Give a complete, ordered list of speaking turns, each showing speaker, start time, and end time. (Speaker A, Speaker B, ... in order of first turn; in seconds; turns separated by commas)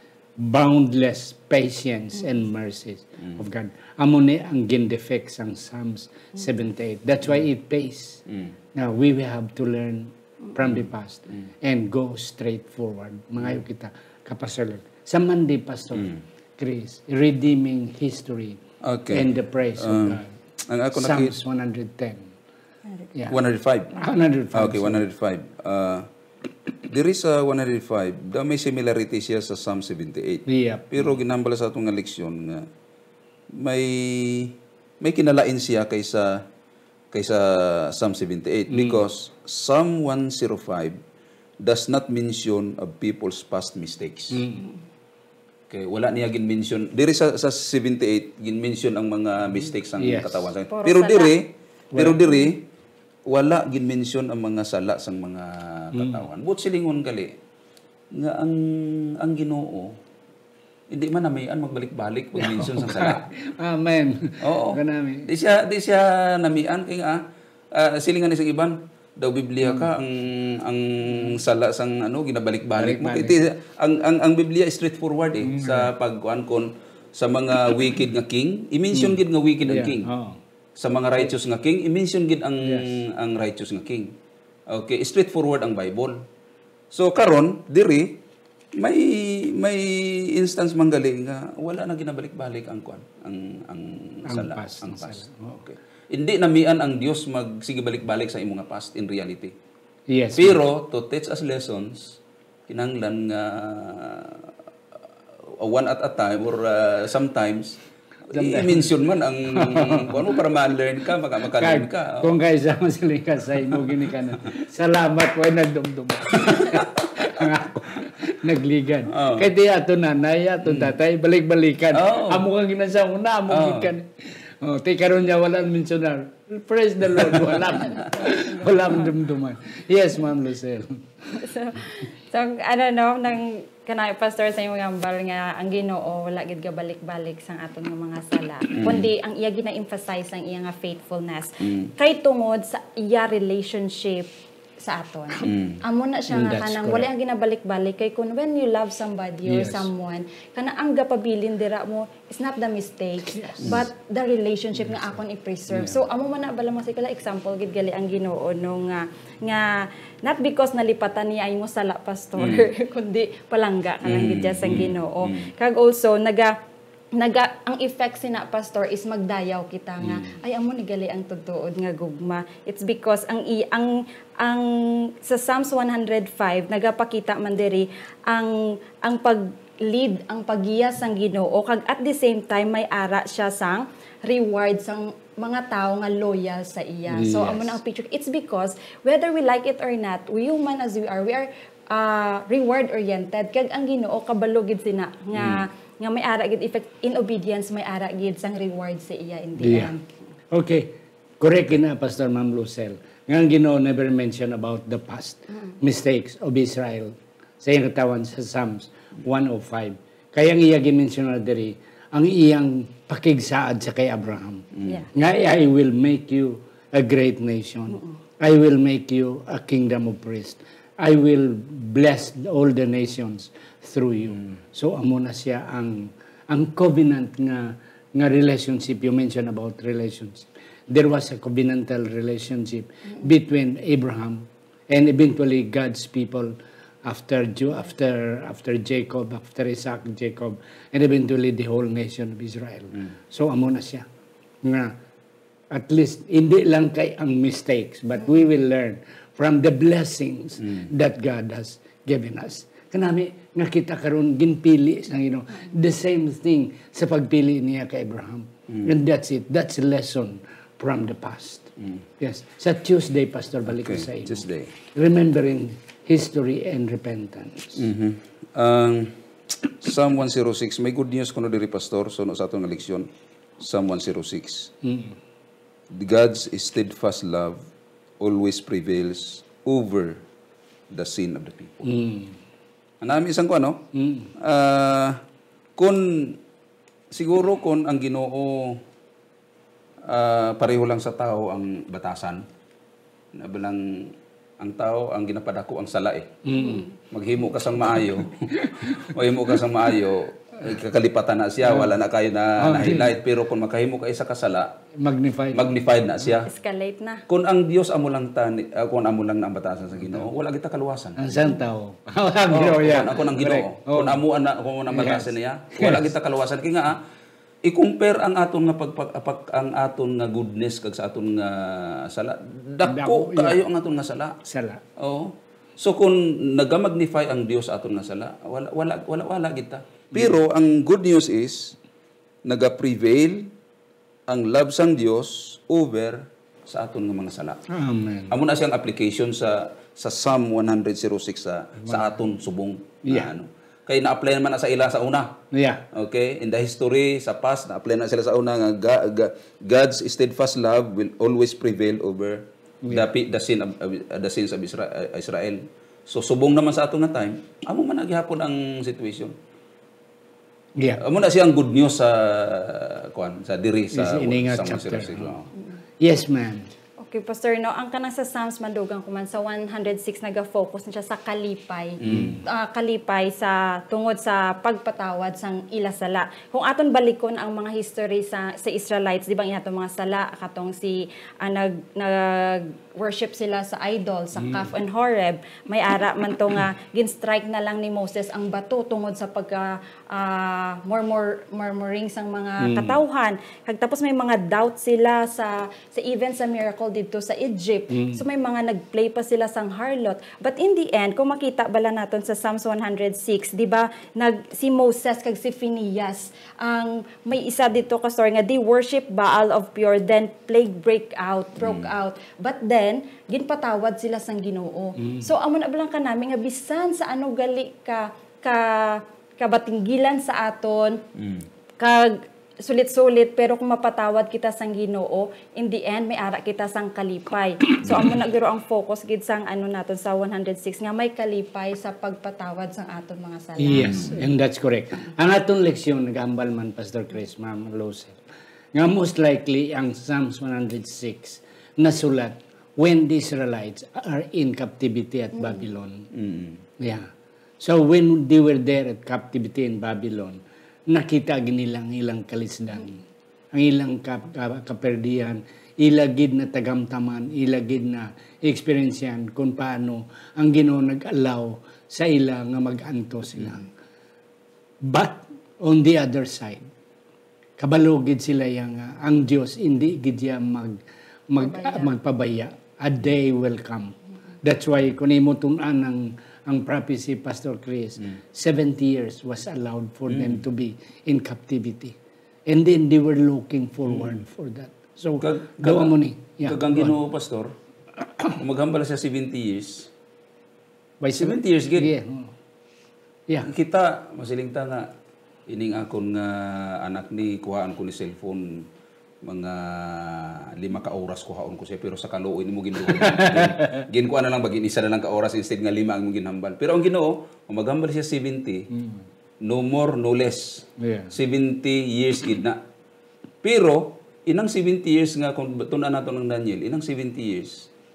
Speaker A: 0.4-8.2, Speaker A: 8.8-20.3, Speaker B: 18.8-21.3, Speaker A: 20.9-22.3, Speaker B: 23.3-23.9, Speaker A: 23.9-25.0, Speaker B: 24.5-26.1, Speaker B: 26.9-32.7, Speaker A: 30.5-31.2, Speaker B: 33.5-36.4, Speaker B: 37.1-41.0, Speaker A: 38.7-39.0, Speaker B: 41.6-44.4, Speaker A: 44.3-44.7, Speaker B: 45.7-52.6, Speaker A: 50.0-50.5, Speaker C: 50.7-51.4, Speaker A: 51.9-52.4, Speaker B: 53.3-57.4, Speaker A: 55.9-56.2, Speaker B: 58.1-60.0, Speaker B: 60.9-63.3, Speaker A: 62.4-65.3, Speaker B: 64.4-80.1, Speaker A: 69.6-69.9, Speaker A: 72.8-73.4, Speaker A: 75.4-75.9, Speaker A: 78.9-80.4, Speaker B: 80.8-84.2, Speaker A: 82.6-83.0, Speaker B: 84.7-86.2, Speaker B: 86.9-88.2, Speaker B: 88.8-99.5, Speaker A: 94.3-95.6, Speaker A: 100.1-100.6, Speaker B: 100.4-104.5, Speaker B: 105.4-107.8, Speaker B: 108.3-112.4, Speaker A: 108.3-108.9, Speaker A: 109.5-110.4, Speaker A: 111.5-131.4, Speaker B: 116.4-116.8, Speaker B: 119.1-119.5, Speaker B: 120.7-121.0, Speaker B: 121.9-122.5, Speaker B: 123.5-123.9, Speaker B: 127.2-127.5, Speaker C: 127.9-128.9, Speaker C: 131.3-144.3, Speaker B: 138.7-139.1, Speaker B: 141.6-141.9, Speaker C: 144.8-166.5, Speaker B: 145.4-145.8, Speaker A: 146.3-147.1, Speaker A: 149.5-149.9, Speaker A: 153.3-153.8, Speaker A: 155.7-156.0, Speaker B: 162.4-162.7, Speaker B: 164.0-165.5, Speaker C: 167.2-200.1, Speaker A: 170.0-170.3, Speaker A: 187.1-187.8, Speaker B: 195.4-195.7, Speaker A: 199.6-199.9, Speaker A: 200.5-244.1, Speaker B: 214.8-215.0, Speaker A: 244.6-244.9, Speaker A: 245.7-267.9, Speaker B: 263.7-264.7, Speaker B: 267.8-274.7, Speaker A: 274.8-275.2, Speaker B: 275.9-277.7, Speaker B: 278.2-280.2, Speaker B: 280.9-281.9, Speaker A: 281.8-282.4, Speaker B: 283.0-283.8, Speaker A: 283.9-284.3, Speaker B: 284.4-285.2, Speaker B: 285.8-286.4, Speaker B: 287.1-288.8, Speaker B: 290.1-292.4, Speaker B: 293.3-296.4, Speaker A: 296.4-296.9, Speaker B: 297.0-304.8, Speaker A: 298.5-299.0, Speaker A: 301.6-302.0, Speaker A: 302.6-303.2, Speaker A: 305.0-305.8, Speaker B: 305.5-306.5, Speaker C: 306.5-307.2, Speaker B: 307.3-311.3, Speaker A: 311.2-314.2, Speaker B: 312.5-317.0, Speaker A: 314.9-316.1, Speaker B: 317.6-324.4, Speaker A: 322.8-323.6, Speaker A: 324.4-324.8, Speaker B: 325.0-331.8, Speaker B: 332.4-333.5, Speaker B: 334.3-337.6, Speaker A: 337.7-338.4, Speaker B: 338.3-345.4, Speaker A: 343.1-343.3, Speaker A: 345.5-345.9, Speaker B: 345.9-359.3, Speaker B: 361.0-365.5, Speaker A: 363.9-365.3, Speaker A: 366.0-366.7, Speaker C: 367.0-421.0, Speaker B: 372.0-372.4, Speaker A: 372.1-372.4, Speaker A: 384.4-384.7, Speaker A: 392.6-393.0, Speaker A: 397.9-398.2, Speaker B: 411.6-411.9, Speaker A: 415.0-415.3, Speaker B: 421.2-421.4, Speaker C: 421.8-434.0, Speaker A: 433.6-438.2, Speaker B: 433.8-434.2, Speaker A: 438.8-446.1, Speaker B: 446.1-446.6, Speaker A: 446.8-447.1, Speaker A: 447.6-463.7, Speaker A: 464.8-466.7, Speaker A: 467.6-482.0, Speaker C: 471.4-471.9, Speaker B: 480.1-480.4, Speaker A: 482.5-487.0, Speaker B: 485.2-487.5, Speaker B: 488.3-489.9, Speaker A: 491.0-492.3, Speaker B: 491.1-491.9, Speaker B: 493.4-494.9, Speaker B: 495.5-498.7, Speaker B: 499.2-508.7, Speaker A: 502.9-503.9, Speaker A: 508.7-509.1, Speaker B: 509.4-512.6, Speaker A: 510.8-511.1, Speaker B: 513.4-517.7